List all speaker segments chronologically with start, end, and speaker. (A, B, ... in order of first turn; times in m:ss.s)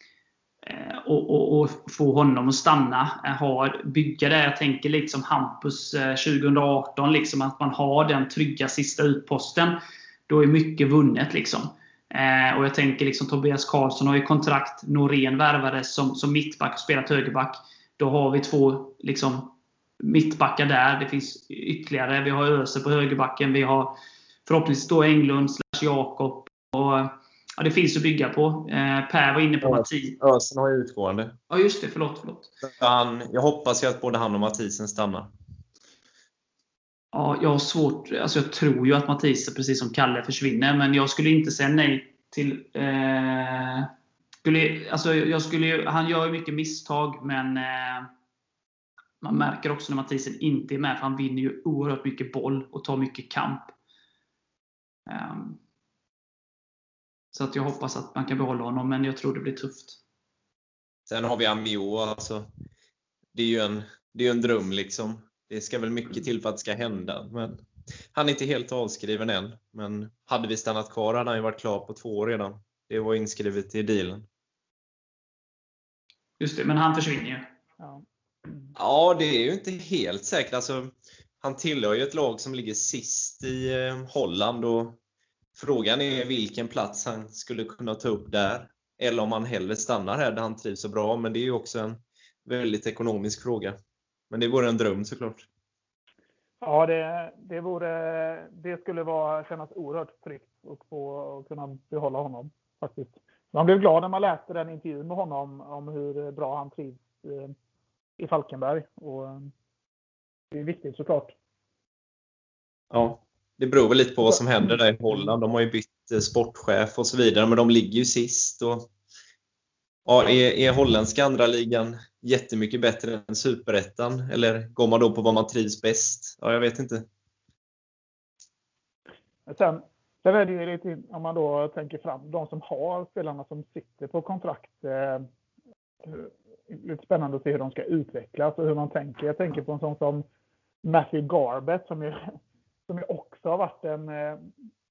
0:00.7-0:09.8 A
0:10.3-0:24.0 A
0:24.5-0:30.2 A
0:29.6-0:31.4 B
0:31.5-0:32.5 A
0:32.6-0:35.3 B
0:37.1-0:43.9 A
0:44.4-0:48.1 A
0:49.2-0:53.7 A
0:55.1-0:55.6 A
0:57.3-1:00.0 A
1:01.1-1:02.5 B
1:03.3-1:14.3 B
1:16.4-1:17.5 A
1:17.8-1:18.7 C
1:18.8-1:25.0 B
1:25.6-1:33.8 B
1:34.3-1:35.5 B
1:36.6-1:47.5 C
1:48.2-1:49.5 C
1:50.5-1:51.3 C
1:52.9-1:58.9 B
2:00.1-2:07.0 B
2:09.5-2:15.3 C
2:16.0-2:20.2 C
2:20.8-2:22.2 C
2:22.9-2:24.5 C